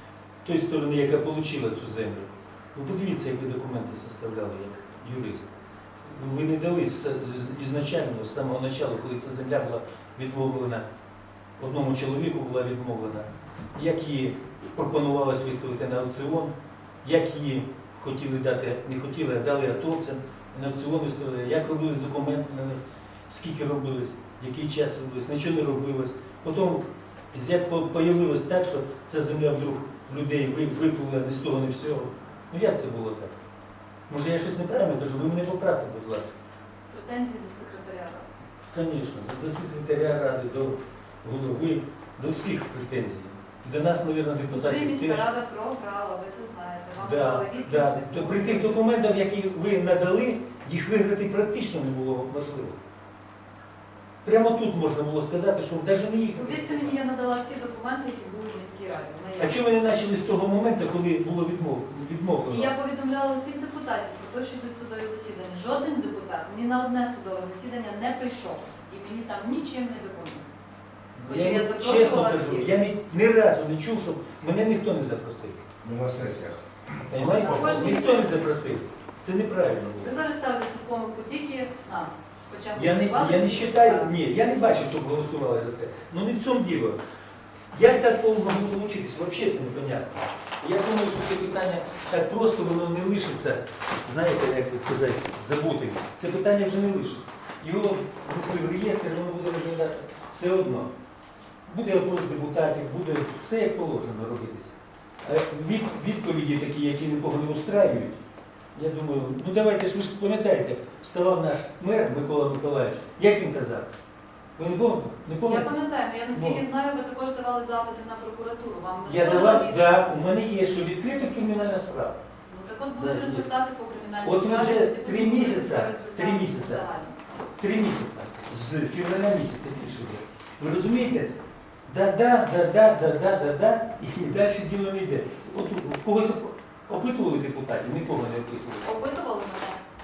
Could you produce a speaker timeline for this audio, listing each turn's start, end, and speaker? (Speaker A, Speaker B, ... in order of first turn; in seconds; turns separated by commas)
Speaker A: 0.4-5.5, Speaker A: 6.1-10.8, Speaker A: 11.6-33.4, Speaker A: 34.1-36.4, Speaker B: 36.9-38.3, Speaker A: 38.7-45.3, Speaker B: 44.4-48.8, Speaker A: 47.0-52.8, Speaker A: 54.2-57.0, Speaker B: 56.3-59.6, Speaker A: 59.4-62.7, Speaker B: 62.5-70.4, Speaker A: 71.2-75.6, Speaker B: 71.2-72.7, Speaker C: 75.8-78.0, Speaker A: 77.1-80.1, Speaker B: 77.2-78.5, Speaker B: 80.0-84.2, Speaker A: 82.8-87.0, Speaker A: 87.7-100.9, Speaker A: 101.7-108.2, Speaker A: 108.8-113.9, Speaker A: 114.6-115.8, Speaker B: 115.4-120.1, Speaker A: 116.3-116.6, Speaker A: 119.1-122.2, Speaker B: 122.5-127.2, Speaker A: 123.0-123.5, Speaker A: 124.2-126.8, Speaker A: 127.6-131.3, Speaker A: 131.9-138.9, Speaker B: 138.8-139.8